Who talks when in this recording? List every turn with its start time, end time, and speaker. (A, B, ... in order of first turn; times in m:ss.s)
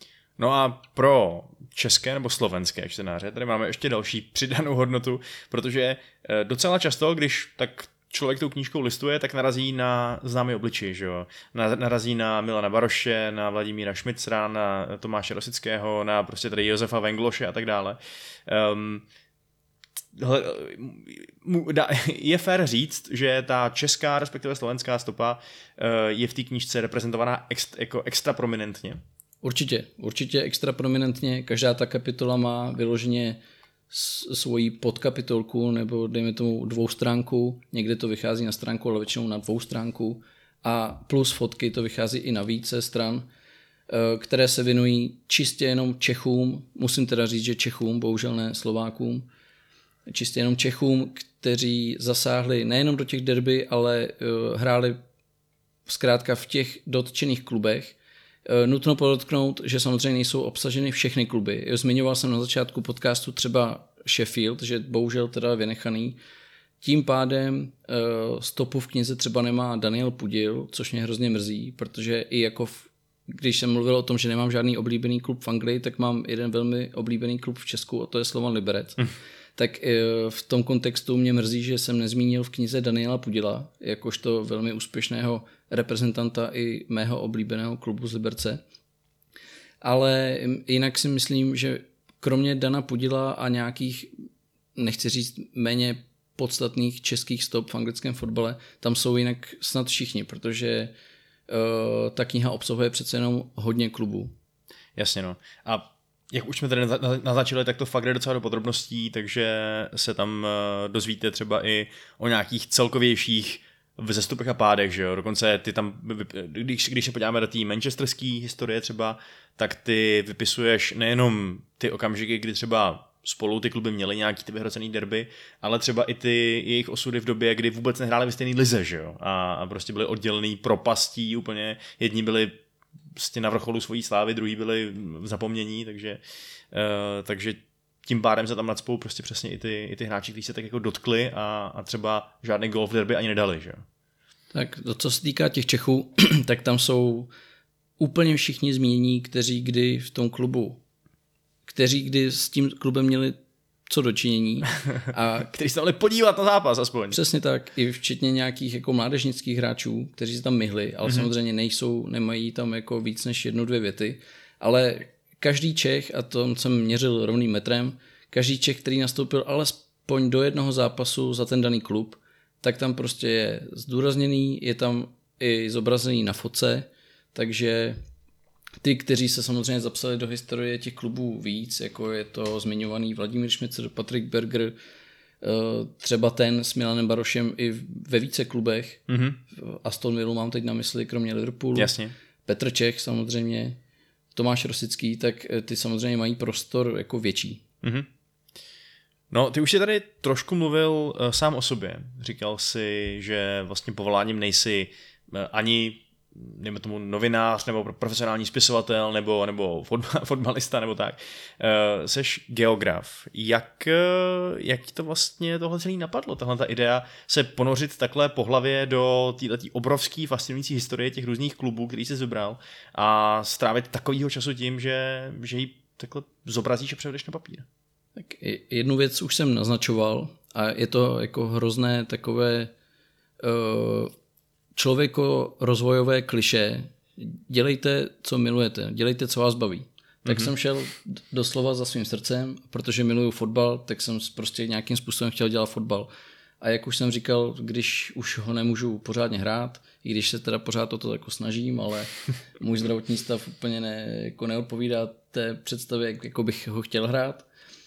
0:00.4-0:19.0 A
0:20.2-0:29.0 A
0:29.4-0:43.3 B
0:43.9-0:49.3 B
0:50.1-0:55.0 B
0:55.9-1:06.2 B
1:06.8-1:19.0 B
1:19.6-1:28.6 B
1:29.8-1:34.1 B
1:34.8-1:40.9 B
1:41.5-1:44.3 B
1:45.0-2:12.6 A
2:13.2-2:23.8 A
2:24.5-2:27.3 B
2:28.0-2:30.8 B
2:31.7-2:35.5 B
2:35.5-2:37.2 A
2:37.1-2:58.0 B
2:58.8-3:04.8 B
3:05.4-3:13.8 B
3:09.1-3:09.4 A
3:11.8-3:12.1 A
3:14.3-3:17.6 B
3:17.8-3:18.1 A
3:19.3-3:47.7 A
3:48.2-3:52.7 B
3:53.4-3:54.1 B
3:54.8-4:06.1 B
4:06.6-4:17.5 B